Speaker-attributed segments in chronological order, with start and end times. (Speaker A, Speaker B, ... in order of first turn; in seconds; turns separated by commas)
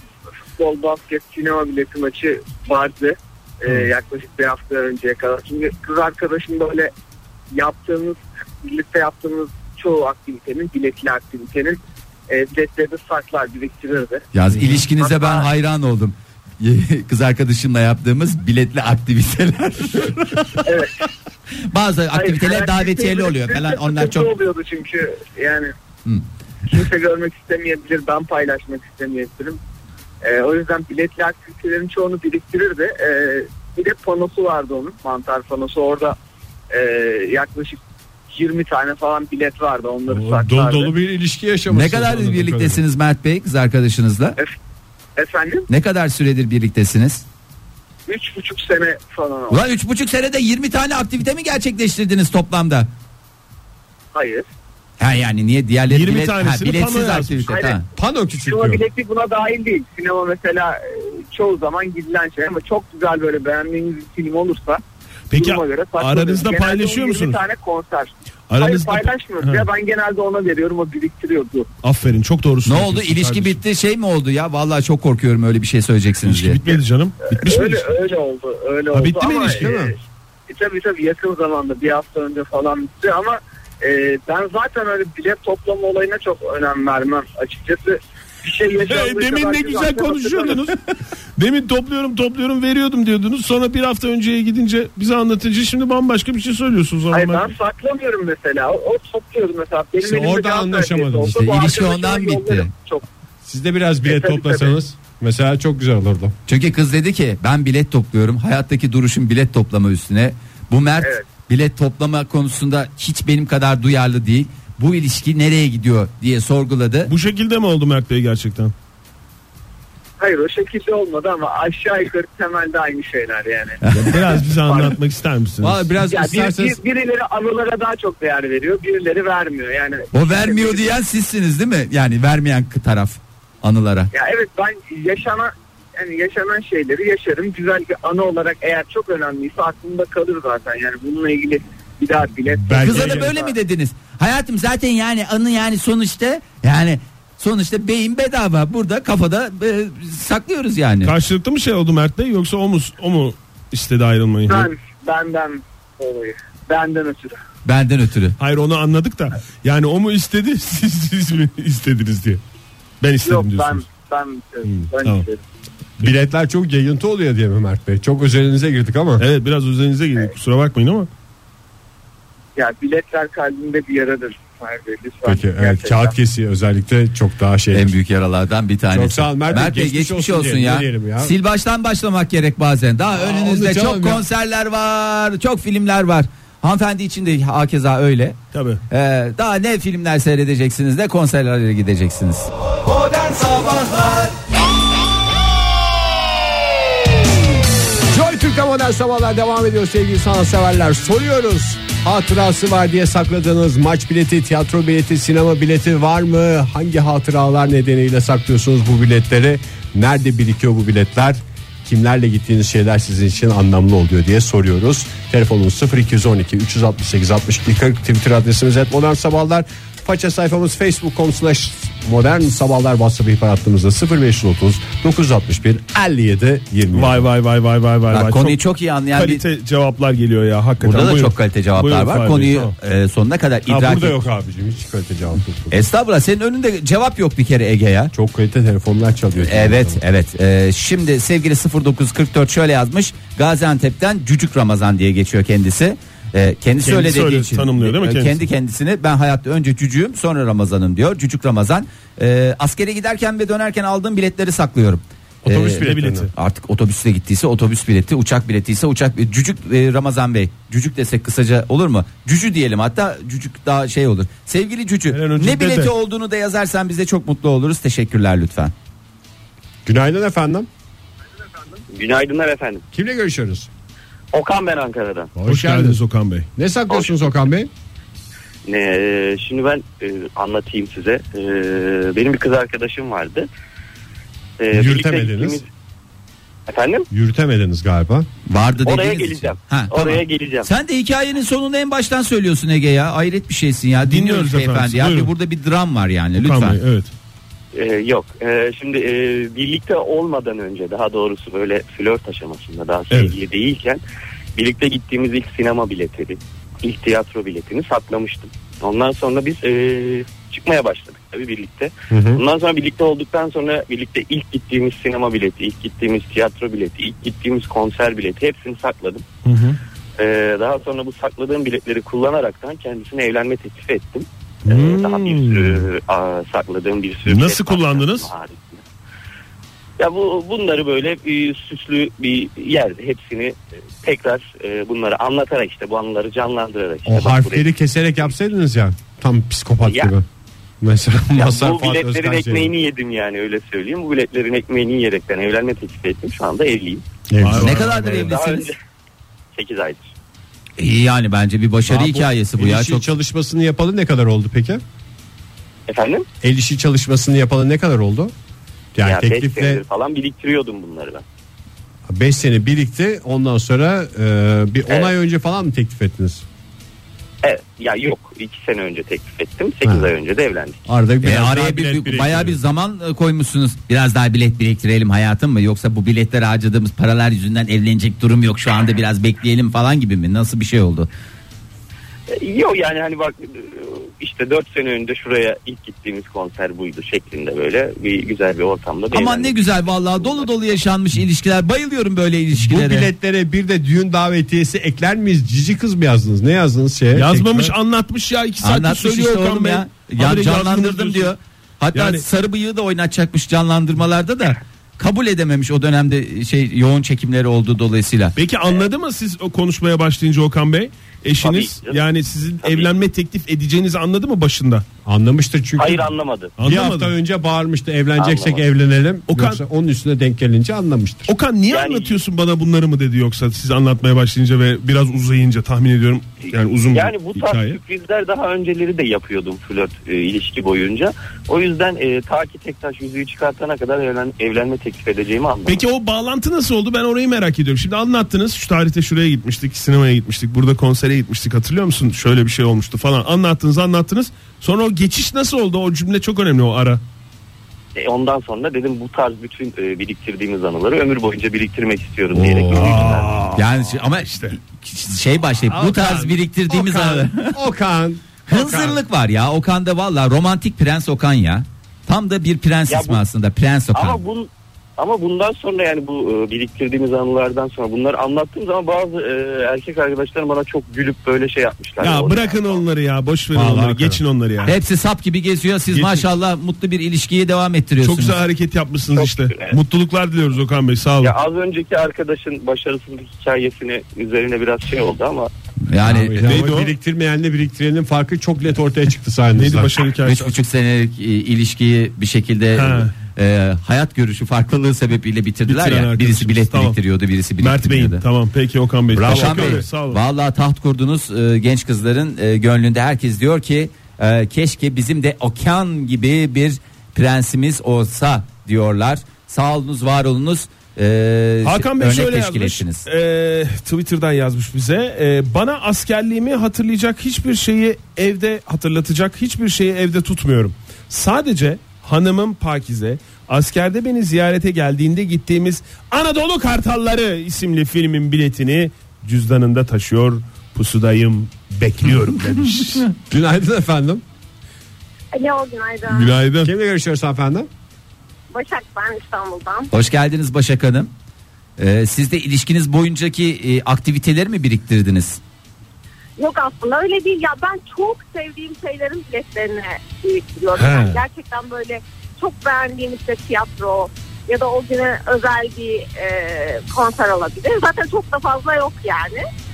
Speaker A: 0.6-6.9, Speaker A: 7.5-14.2, Speaker B: 14.3-20.7, Speaker A: 14.8-15.5, Speaker A: 20.6-20.9, Speaker B: 21.7-24.3, Speaker A: 22.1-25.7, Speaker A: 26.7-29.6, Speaker A: 30.2-36.1, Speaker A: 36.7-37.8, Speaker A: 38.3-40.9, Speaker C: 40.1-42.8, Speaker B: 41.7-44.4, Speaker A: 45.1-45.6, Speaker B: 45.7-47.2, Speaker A: 48.1-49.6, Speaker B: 49.5-52.9, Speaker A: 54.1-54.5, Speaker B: 55.0-57.8, Speaker D: 55.9-57.5, Speaker A: 57.5-57.8, Speaker C: 58.0-58.8, Speaker A: 58.4-71.7, Speaker D: 65.3-67.4, Speaker D: 68.5-69.7, Speaker D: 71.8-73.6, Speaker B: 72.6-76.6, Speaker D: 76.2-77.9, Speaker A: 77.3-79.9, Speaker D: 78.9-79.7, Speaker C: 79.5-79.9, Speaker A: 80.5-90.6, Speaker D: 88.8-90.8, Speaker D: 91.4-97.5, Speaker A: 97.1-103.0, Speaker C: 100.0-101.4, Speaker B: 101.3-102.7, Speaker C: 103.4-106.3, Speaker A: 104.0-104.7, Speaker B: 106.5-117.1, Speaker A: 111.0-111.2, Speaker D: 117.1-118.7, Speaker A: 120.2-125.0, Speaker B: 123.8-124.1, Speaker D: 123.9-125.9, Speaker C: 125.6-126.8, Speaker A: 126.0-131.0, Speaker B: 130.1-134.1, Speaker A: 134.1-143.5, Speaker C: 142.6-143.3, Speaker B: 142.8-151.1, Speaker D: 151.0-154.7, Speaker A: 154.5-157.4, Speaker B: 157.6-158.4, Speaker D: 158.4-162.4, Speaker D: 163.0-163.9, Speaker A: 163.2-165.4, Speaker D: 164.7-165.2, Speaker C: 166.0-169.2, Speaker D: 169.2-171.1, Speaker A: 172.6-176.1, Speaker C: 175.2-177.9, Speaker B: 177.7-188.4, Speaker C: 178.9-181.3, Speaker C: 183.1-184.2, Speaker D: 188.5-188.8, Speaker B: 188.9-192.5, Speaker B: 193.2-194.3, Speaker C: 198.1-227.2, Speaker D: 226.9-228.6, Speaker B: 228.1-229.4, Speaker D: 229.1-232.7, Speaker B: 230.8-234.2, Speaker C: 233.7-235.8, Speaker B: 235.7-238.1, Speaker C: 238.1-240.0, Speaker B: 239.4-268.7, Speaker D: 246.8-248.4, Speaker C: 255.4-256.3, Speaker D: 255.7-256.3, Speaker D: 265.1-265.9, Speaker C: 269.9-270.7, Speaker E: 271.9-272.8, Speaker C: 272.9-273.7, Speaker E: 274.3-275.3, Speaker C: 275.3-276.0, Speaker D: 275.4-276.5, Speaker C: 276.6-277.7, Speaker E: 278.6-283.5, Speaker E: 284.6-285.7, Speaker C: 284.7-285.6, Speaker E: 286.7-287.1, Speaker C: 287.1-288.3, Speaker B: 288.5-296.8, Speaker E: 288.8-290.7, Speaker D: 294.0-295.3, Speaker D: 296.4-297.1, Speaker E: 297.7-304.0, Speaker D: 303.1-303.3, Speaker E: 304.6-319.2, Speaker C: 312.1-312.4, Speaker D: 319.4-319.8, Speaker E: 320.2-328.8, Speaker D: 324.6-325.9, Speaker D: 327.3-328.3, Speaker E: 330.0-337.7, Speaker C: 337.1-340.2, Speaker E: 339.9-340.1, Speaker C: 340.8-342.7, Speaker E: 341.4-347.0, Speaker C: 347.3-347.9, Speaker D: 347.4-348.3, Speaker B: 347.5-348.7, Speaker E: 348.1-348.8, Speaker E: 349.5-350.1, Speaker B: 350.8-353.1, Speaker C: 351.9-354.8, Speaker E: 355.9-356.2, Speaker C: 356.4-358.3, Speaker C: 358.9-359.8, Speaker E: 359.0-361.2, Speaker C: 362.1-366.4, Speaker E: 367.4-370.8, Speaker C: 369.8-370.1, Speaker C: 370.9-372.6, Speaker B: 371.2-381.1, Speaker E: 382.3-390.5, Speaker B: 389.1-393.1, Speaker C: 392.5-397.7, Speaker D: 397.1-401.3, Speaker B: 398.6-408.4, Speaker D: 401.9-402.2, Speaker D: 408.4-414.8, Speaker E: 411.4-412.0, Speaker E: 412.6-412.9, Speaker C: 415.1-421.3, Speaker E: 415.8-416.5, Speaker D: 416.6-417.1, Speaker E: 418.2-418.6, Speaker D: 419.3-419.6, Speaker D: 421.3-427.8, Speaker E: 421.7-422.2, Speaker E: 426.9-435.8, Speaker D: 435.6-447.0, Speaker E: 447.9-453.4, Speaker C: 452.3-453.3, Speaker D: 452.7-453.6, Speaker B: 453.5-457.6, Speaker C: 455.7-459.0, Speaker B: 458.5-464.2, Speaker E: 462.9-463.2, Speaker E: 463.9-472.8, Speaker D: 472.0-474.7, Speaker C: 473.5-474.2, Speaker B: 474.6-478.4, Speaker D: 475.9-476.3, Speaker D: 478.0-481.4, Speaker E: 479.1-479.8, Speaker E: 481.2-485.5, Speaker B: 485.9-486.6, Speaker C: 486.0-489.9, Speaker D: 486.4-486.9, Speaker D: 489.5-490.6, Speaker B: 490.2-498.2, Speaker D: 492.7-493.1, Speaker D: 495.7-497.0, Speaker D: 497.6-500.2, Speaker C: 499.1-499.9, Speaker B: 499.2-513.0, Speaker D: 511.6-533.1, Speaker C: 533.3-534.2, Speaker F: 535.3-536.3, Speaker D: 536.1-536.7, Speaker C: 536.6-537.7, Speaker F: 538.5-539.9, Speaker B: 539.9-541.1, Speaker B: 541.8-545.4, Speaker F: 546.4-559.5, Speaker D: 550.8-551.2